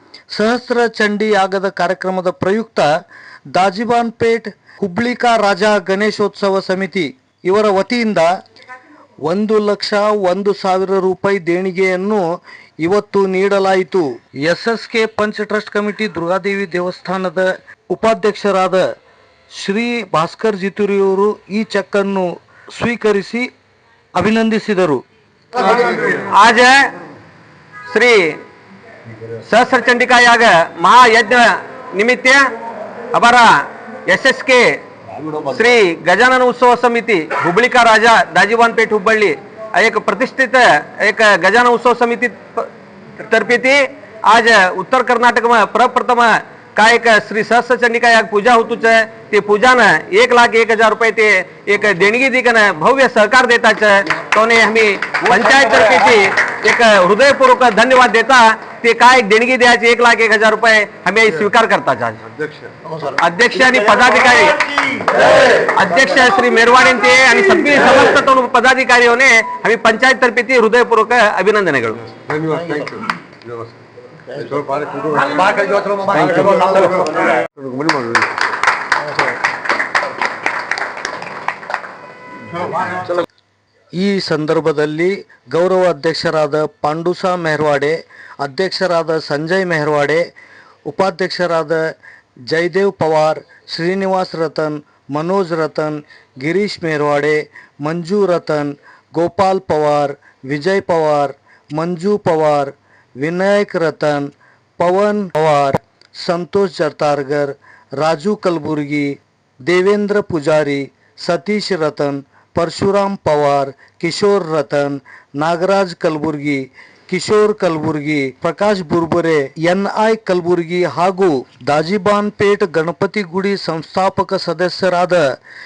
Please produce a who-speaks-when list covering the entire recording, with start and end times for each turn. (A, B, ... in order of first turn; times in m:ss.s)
0:00.3-0:02.9 A
0:03.5-0:08.3 A
0:09.3-0:12.2 A
0:12.8-0:18.9 A
0:19.6-0:23.5 A
0:24.2-0:25.0 A
0:25.6-0:26.9 B
0:27.9-0:28.4 B
0:29.4-0:32.5 B
0:33.1-0:33.5 B
0:34.1-1:02.2 B
1:02.4-1:02.8 C
1:03.1-1:12.1 B
1:12.1-1:13.7 C
1:14.3-1:18.3 C
1:24.0-1:30.2 A
1:30.9-1:31.8 A
1:32.5-1:49.1 A
1:49.7-2:05.2 A